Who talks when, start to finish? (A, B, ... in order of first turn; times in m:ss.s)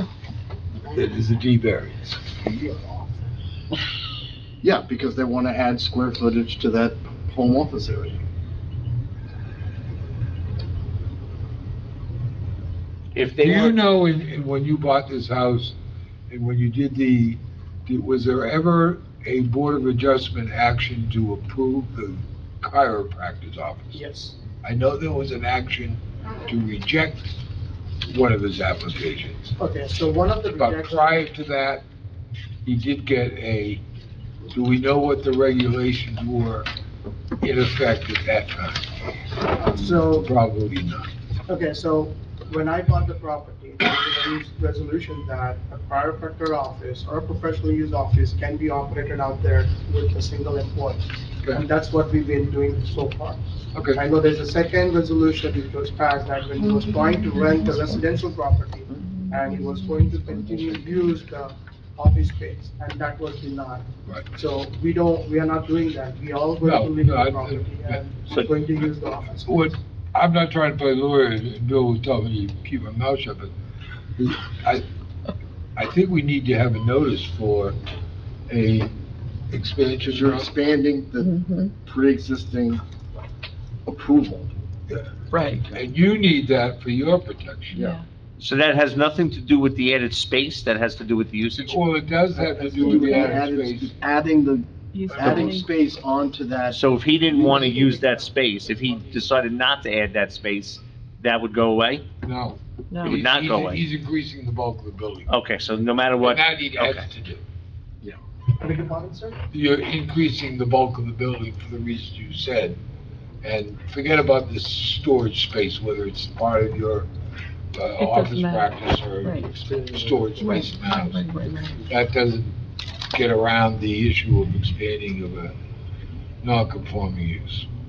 0:00.9-0:02.3 A
0:04.6-0:08.2 B
0:13.1-0:13.8 C
0:13.4-0:15.8 A
0:16.3-0:24.0 A
0:23.9-0:24.4 D
0:24.6-0:27.2 A
0:28.0-0:29.5 A
0:29.6-0:31.2 D
0:30.6-0:31.8 A
0:32.6-0:33.8 A
0:34.5-0:36.7 A
0:37.4-0:38.9 A
0:39.5-0:40.3 D
0:40.0-0:41.1 A
0:41.5-0:53.4 D
0:53.9-1:09.8 D
0:56.7-0:57.7 E
1:06.6-1:08.9 A
1:09.4-1:13.5 A
1:14.2-1:14.8 A
1:15.8-1:17.8 A
1:18.5-1:18.9 A
1:19.5-1:20.5 A
1:20.0-1:22.8 B
1:21.2-1:21.6 E
1:23.8-1:24.5 B
1:24.9-1:27.8 A
1:25.3-1:25.6 E
1:27.7-1:28.0 B
1:28.4-1:31.8 C
1:31.6-1:34.0 A
1:32.4-1:37.9 B
1:34.9-1:35.6 E
1:36.7-1:42.0 C
1:37.8-1:39.2 D
1:42.2-1:42.6 A
1:42.9-1:43.2 E
1:43.0-1:43.8 C
1:43.2-1:45.3 A
1:45.3-1:47.1 C
1:46.2-1:47.4 A
1:48.6-1:49.4 D
1:49.5-1:52.8 A
1:53.4-1:57.1 A
1:57.7-2:01.3 A
1:58.0-1:59.4 E
2:00.4-2:01.8 E
2:01.8-2:02.6 A
2:03.1-2:05.5 A
2:06.4-2:07.7 A